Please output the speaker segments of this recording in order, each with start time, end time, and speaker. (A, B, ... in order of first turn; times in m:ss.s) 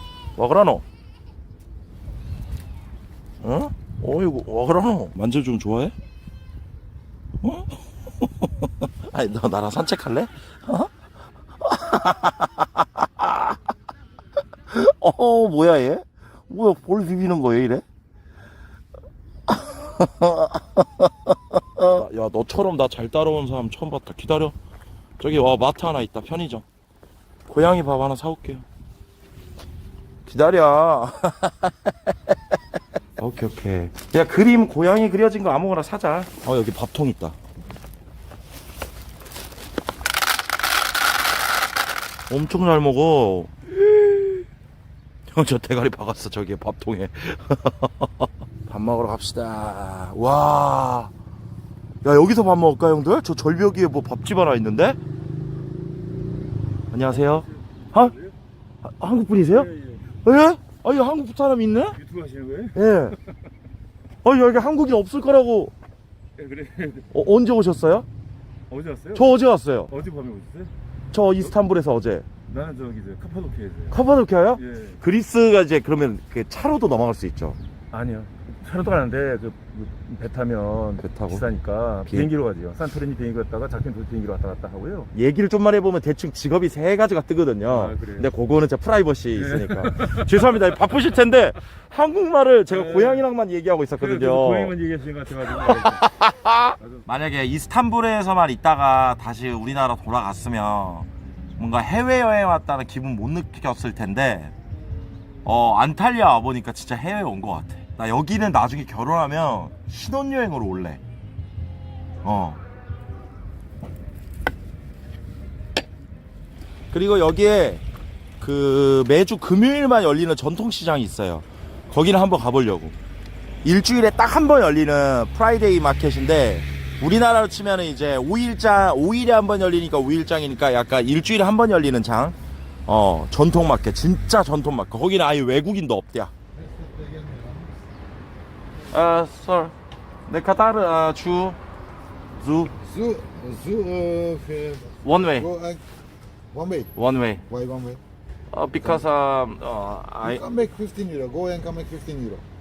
0:00.4-0:00.8 A
0:03.4-0:05.9 A
0:07.4-0:10.9 A
0:11.6-0:13.6 A
0:14.7-0:17.8 A
0:19.5-0:24.6 A
0:25.2-0:26.6 A
0:27.5-0:28.7 A
0:30.3-0:31.9 A
0:33.2-0:37.4 A
0:42.3-0:44.4 A
0:45.3-0:51.1 A
0:52.0-0:55.0 A
0:56.9-0:58.2 A
0:57.1-0:58.4 B
0:58.8-0:59.7 A
0:59.5-1:00.1 B
1:00.2-1:02.0 A
1:01.9-1:02.8 B
1:02.8-1:03.2 A
1:04.2-1:05.7 A
1:06.4-1:07.1 B
1:07.1-1:08.1 A
1:08.7-1:09.4 B
1:09.1-1:09.9 A
1:09.9-1:10.7 B
1:11.1-1:12.3 A
1:12.5-1:14.0 B
1:13.9-1:17.6 A
1:14.6-1:15.0 B
1:17.9-1:25.1 B
1:21.0-1:21.5 A
1:22.1-1:22.3 A
1:25.1-1:34.8 A
1:27.6-1:28.3 B
1:29.4-1:30.4 B
1:32.7-1:33.3 B
1:34.0-1:36.1 B
1:35.7-1:44.5 A
1:36.8-1:37.0 B
1:45.4-1:51.0 A
1:52.2-1:52.6 A
1:56.9-1:57.8 A
1:58.4-2:03.0 A
2:03.6-2:12.4 A
2:12.9-2:16.3 A
2:16.9-2:17.6 C
2:18.9-2:19.7 A
2:20.3-2:21.6 A
2:22.3-2:22.7 A
2:22.9-2:25.8 C
2:25.0-2:25.5 A
2:26.5-2:26.9 C
2:27.0-2:27.4 A
2:27.5-2:28.0 C
2:28.5-2:30.5 A
2:30.4-2:32.4 C